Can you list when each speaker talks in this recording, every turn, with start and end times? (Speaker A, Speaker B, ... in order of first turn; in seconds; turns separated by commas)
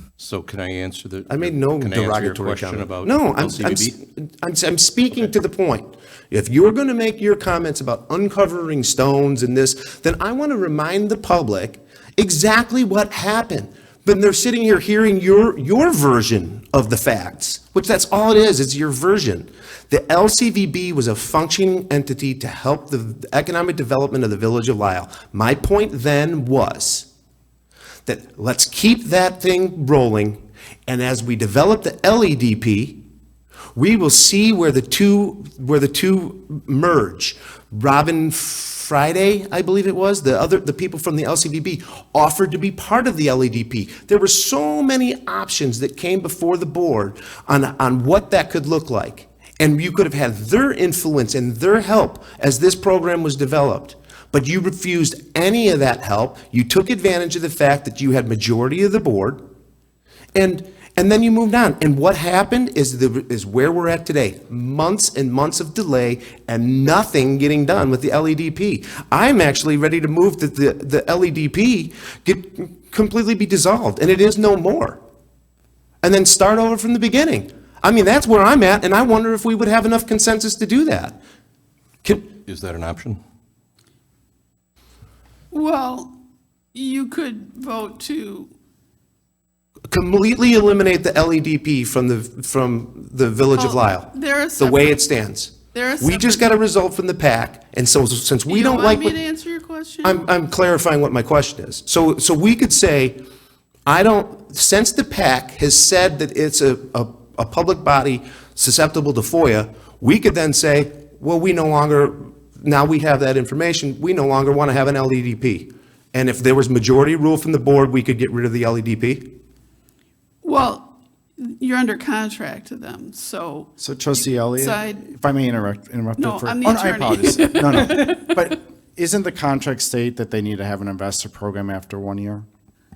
Speaker A: 0.2-4.0, Speaker B: 1.3-27.1, Speaker B: 28.1-33.0, Speaker B: 33.8-59.4, Speaker B: 60.3-75.0, Speaker B: 76.0-81.2, Speaker A: 82.5-83.2, Speaker C: 85.5-86.1, Speaker C: 86.7-88.5, Speaker B: 89.9-99.2, Speaker C: 93.6-95.0, Speaker C: 95.7-96.4, Speaker C: 98.5-100.2, Speaker B: 100.0-103.2, Speaker B: 103.9-119.3, Speaker C: 120.4-120.9, Speaker C: 121.4-123.7, Speaker D: 123.8-132.4, Speaker C: 124.6-125.0, Speaker C: 126.2-127.9